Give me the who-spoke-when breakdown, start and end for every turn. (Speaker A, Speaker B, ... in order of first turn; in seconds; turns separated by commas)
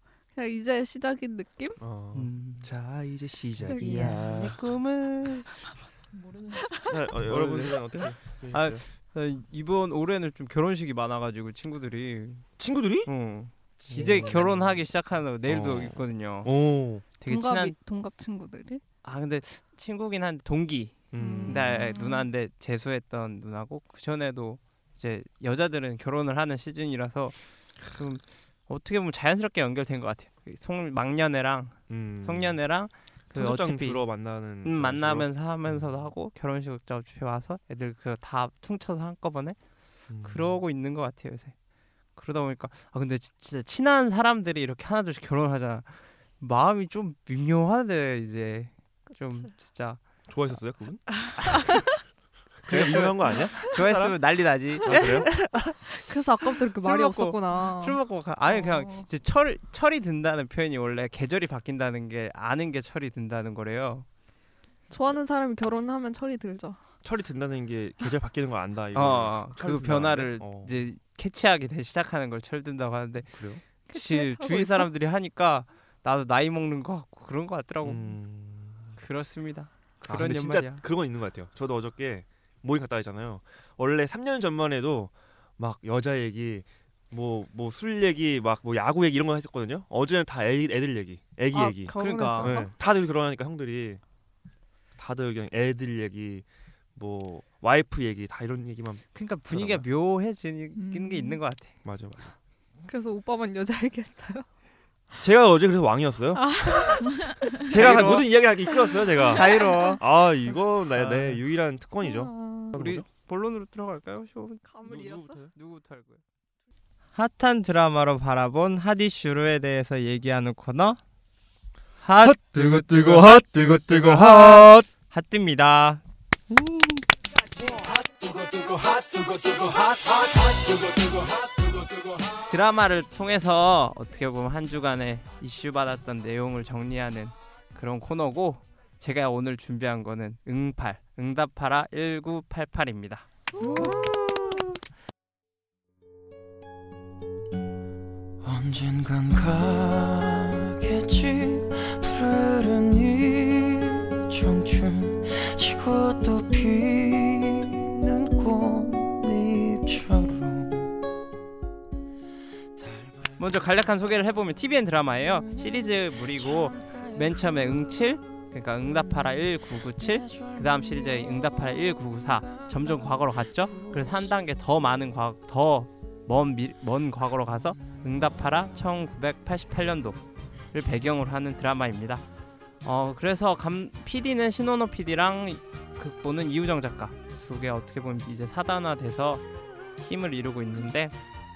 Speaker A: 0.3-1.8, Speaker B: 1.8-4.5, Speaker C: 2.1-2.7, Speaker A: 3.6-4.3, Speaker C: 3.8-5.5, Speaker D: 6.1-6.8, Speaker A: 6.7-7.0, Speaker B: 6.9-8.8, Speaker C: 7.2-7.8, Speaker C: 8.5-12.4, Speaker B: 12.6-13.1, Speaker C: 13.1-16.5, Speaker B: 13.8-14.8, Speaker B: 15.4-17.0, Speaker C: 17.2-17.7, Speaker A: 17.2-18.8, Speaker C: 19.0-27.4, Speaker B: 21.1-21.9, Speaker A: 21.2-22.3, Speaker C: 27.9-34.0, Speaker B: 31.9-32.6, Speaker B: 33.3-36.0, Speaker C: 34.6-39.6, Speaker B: 40.1-40.6, Speaker C: 40.2-41.5, Speaker C: 42.1-50.0, Speaker B: 50.3-51.8, Speaker C: 51.5-51.7, Speaker A: 51.5-51.9, Speaker B: 52.6-54.2, Speaker C: 52.7-55.9, Speaker B: 54.8-55.3, Speaker A: 54.9-58.0, Speaker C: 56.5-64.0, Speaker D: 58.5-59.0, Speaker A: 64.9-66.8, Speaker B: 67.0-70.8, Speaker C: 68.9-78.1, Speaker B: 73.3-73.6, Speaker A: 73.9-74.9, Speaker B: 77.8-79.0, Speaker C: 79.0-80.8, Speaker B: 80.0-94.0, Speaker A: 91.5-92.7, Speaker C: 91.9-92.6, Speaker B: 95.0-99.8, Speaker C: 99.1-101.7, Speaker D: 100.7-101.4, Speaker B: 101.8-102.3, Speaker A: 102.8-104.5, Speaker B: 105.2-106.8, Speaker A: 106.4-107.5, Speaker B: 107.6-113.0, Speaker C: 107.7-108.4, Speaker A: 108.8-110.0, Speaker C: 109.2-110.0, Speaker C: 110.9-111.4, Speaker A: 112.0-112.7, Speaker C: 112.7-116.2, Speaker A: 114.7-115.4, Speaker C: 117.1-121.0, Speaker C: 122.0-126.0, Speaker B: 122.2-124.7, Speaker C: 126.5-126.9, Speaker C: 132.4-143.9, Speaker E: 143.6-144.6, Speaker E: 148.4-160.9, Speaker E: 162.8-163.1, Speaker C: 163.4-180.2, Speaker E: 165.4-167.8, Speaker E: 170.0-174.4, Speaker C: 180.7-182.2, Speaker C: 182.8-189.4, Speaker C: 190.0-191.1